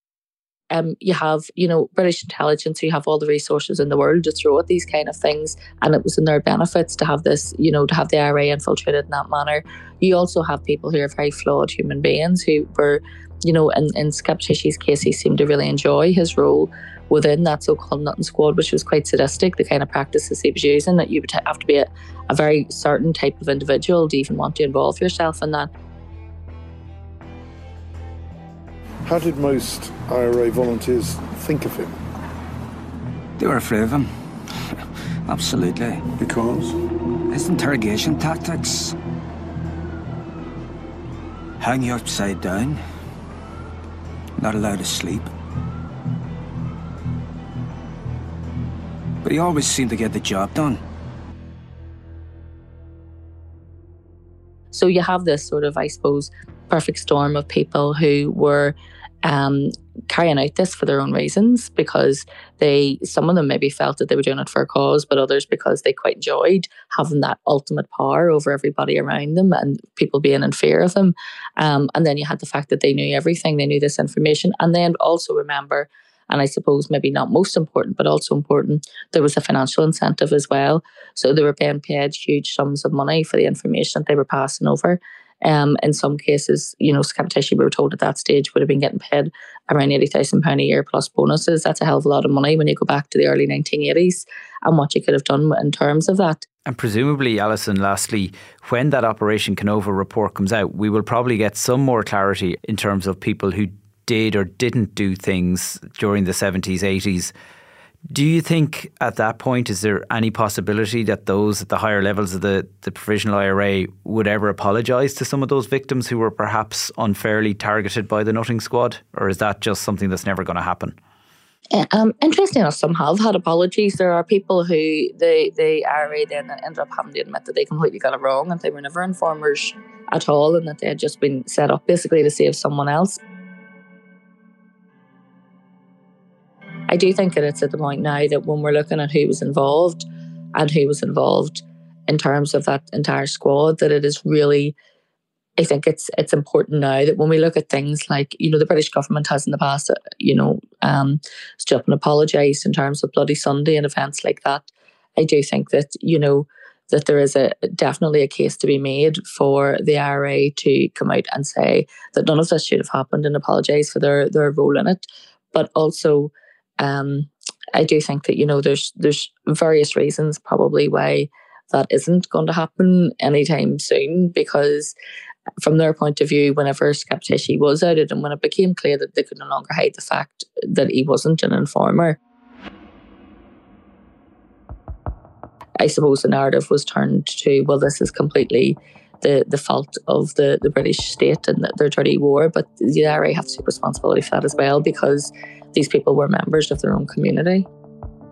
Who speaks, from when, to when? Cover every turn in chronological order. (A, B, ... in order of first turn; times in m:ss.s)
0:00.7-0:25.7 A
0:29.0-0:32.0 B
0:33.4-0:34.8 C
0:35.3-0:36.1 C
0:36.2-0:36.8 B
0:37.3-0:39.0 C
0:41.6-0:42.8 C
0:44.4-0:45.3 C
0:49.2-0:50.8 C
0:54.7-1:36.4 A
1:36.7-1:47.3 D
1:48.1-2:01.0 D
2:01.7-2:13.2 A
2:16.9-2:24.7 A
2:25.6-2:55.0 A
2:55.6-3:02.2 A
3:05.8-3:17.7 A